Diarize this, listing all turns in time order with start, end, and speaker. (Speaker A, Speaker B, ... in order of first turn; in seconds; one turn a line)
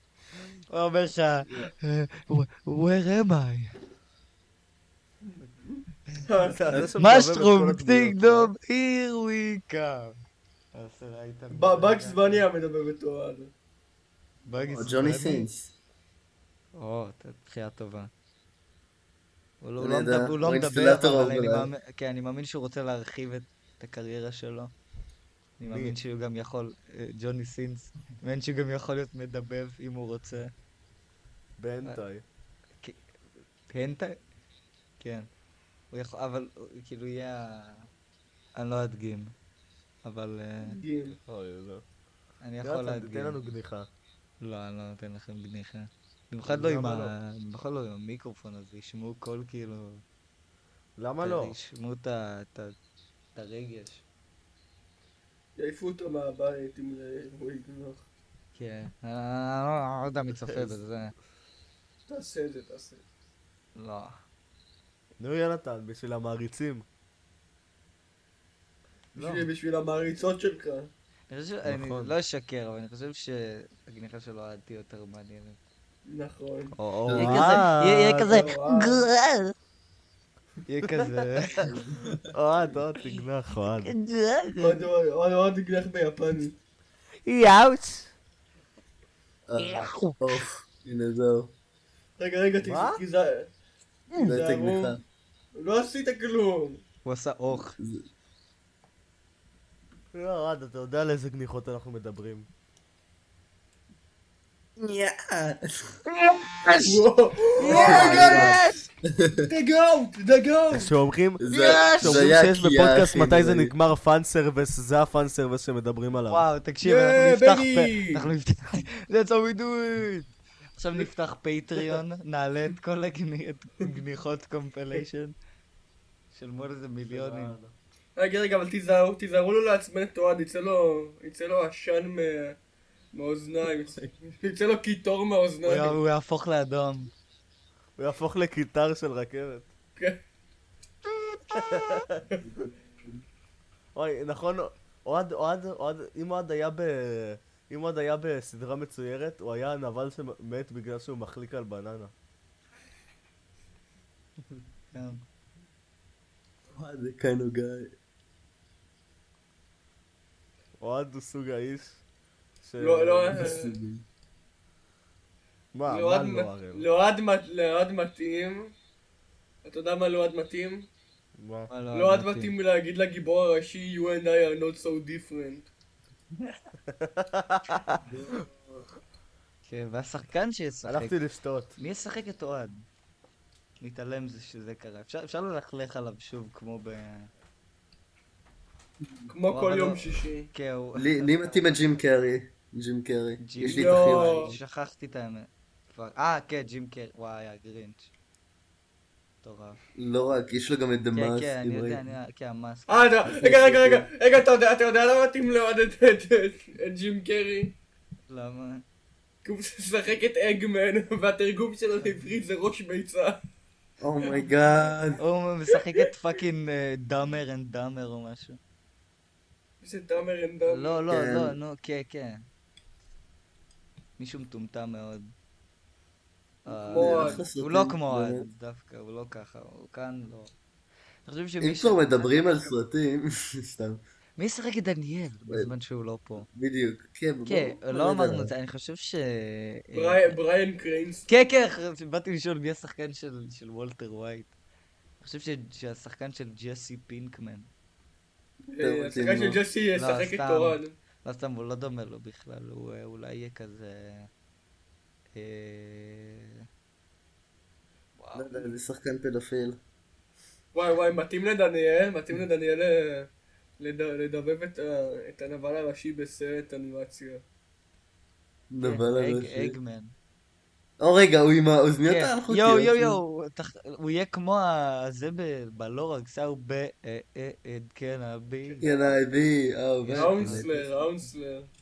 Speaker A: 0.7-3.7
Speaker B: 6.2-6.9
Speaker C: 6.5-8.5
Speaker A: 7.0-10.2
Speaker A: 10.7-12.4
Speaker B: 11.5-13.5
Speaker A: 14.4-15.5
Speaker D: 14.7-15.7
Speaker A: 16.7-18.1
Speaker A: 19.6-24.7
Speaker D: 19.8-21.7
Speaker A: 25.6-30.5
Speaker C: 25.7-25.9
Speaker C: 31.6-32.2
Speaker A: 33.7-34.2
Speaker A: 35.0-35.3
Speaker A: 35.9-37.9
Speaker A: 38.5-39.3
Speaker A: 40.0-40.8
Speaker B: 40.6-41.2
Speaker C: 41.3-41.8
Speaker A: 42.4-43.5
Speaker C: 42.6-43.9
Speaker A: 44.4-50.0
Speaker C: 46.5-47.1
Speaker C: 51.0-51.5
Speaker A: 51.2-52.8
Speaker A: 53.3-54.0
Speaker B: 55.5-58.0
Speaker A: 58.5-61.1
Speaker C: 60.4-60.7
Speaker B: 62.1-63.0
Speaker A: 63.8-64.2
Speaker C: 65.2-66.8
Speaker A: 69.1-69.5
Speaker B: 69.1-70.9
Speaker A: 71.3-75.6
Speaker C: 71.6-72.1
Speaker B: 76.0-76.8
Speaker C: 76.8-78.4
Speaker D: 77.1-77.4
Speaker A: 77.1-79.5
Speaker B: 78.2-79.0
Speaker A: 80.7-81.7
Speaker D: 81.7-82.2
Speaker C: 82.3-83.9
Speaker A: 83.8-84.8
Speaker B: 84.6-86.5
Speaker C: 87.3-88.1
Speaker D: 89.5-91.5
Speaker A: 89.6-90.4
Speaker B: 92.2-93.5
Speaker C: 92.6-93.0
Speaker B: 94.1-95.0
Speaker D: 94.2-95.0
Speaker B: 95.5-96.8
Speaker A: 97.0-97.8
Speaker D: 97.8-98.0
Speaker C: 100.1-102.5
Speaker D: 104.8-105.9
Speaker A: 106.1-107.0
Speaker B: 106.8-108.6
Speaker A: 107.6-108.8
Speaker C: 107.6-108.6
Speaker D: 107.7-108.5
Speaker D: 109.1-109.5
Speaker B: 109.5-110.9
Speaker C: 110.7-116.4
Speaker D: 111.4-113.7
Speaker A: 111.5-112.3
Speaker A: 116.3-125.3
Speaker B: 116.8-118.3
Speaker A: 126.3-127.5
Speaker C: 127.1-127.7
Speaker B: 128.2-132.6
Speaker B: 133.1-136.0
Speaker A: 135.6-137.1
Speaker C: 138.0-139.7
Speaker C: 141.5-142.2
Speaker D: 142.5-143.2
Speaker C: 143.9-152.1
Speaker A: 154.9-155.2
Speaker D: 156.7-157.9
Speaker C: 160.8-162.0
Speaker C: 162.6-163.5
Speaker B: 162.8-163.7
Speaker D: 163.3-164.0
Speaker C: 165.7-166.9
Speaker B: 165.9-168.7
Speaker B: 169.6-170.9
Speaker C: 171.4-171.7
Speaker A: 171.7-172.5
Speaker B: 171.9-175.7
Speaker C: 176.9-178.0
Speaker D: 178.1-178.8
Speaker A: 179.7-181.2
Speaker C: 180.8-181.7
Speaker A: 181.8-182.8
Speaker A: 183.8-187.3
Speaker D: 189.0-189.3
Speaker B: 189.3-190.5
Speaker A: 189.5-191.7
Speaker D: 190.9-194.6
Speaker A: 193.4-198.1
Speaker B: 193.6-194.5
Speaker A: 199.4-199.8
Speaker D: 200.0-202.0
Speaker A: 201.1-203.2
Speaker B: 202.9-207.7
Speaker D: 203.2-204.1
Speaker A: 208.3-208.8
Speaker B: 209.4-213.4
Speaker D: 214.0-215.2
Speaker A: 215.2-218.6
Speaker B: 215.7-216.0
Speaker B: 219.8-221.0
Speaker A: 220.7-222.4
Speaker D: 221.1-221.5
Speaker A: 224.2-225.3
Speaker A: 226.6-230.5
Speaker B: 226.9-227.4
Speaker D: 226.9-228.5
Speaker A: 231.2-232.7
Speaker D: 231.6-234.0
Speaker A: 234.4-236.5
Speaker D: 236.5-238.5
Speaker A: 237.4-240.4
Speaker B: 239.9-241.3
Speaker A: 241.3-244.5
Speaker A: 245.2-247.7
Speaker B: 248.7-250.9
Speaker D: 248.8-249.6
Speaker A: 249.9-254.3
Speaker A: 255.3-256.6
Speaker A: 258.2-258.7
Speaker D: 258.4-259.8
Speaker B: 260.7-263.3
Speaker B: 263.8-267.4
Speaker D: 268.7-269.7
Speaker A: 268.8-270.1
Speaker D: 271.0-273.2
Speaker A: 272.0-278.9
Speaker B: 278.7-279.2
Speaker D: 278.8-280.7
Speaker A: 280.0-280.9
Speaker B: 280.1-281.7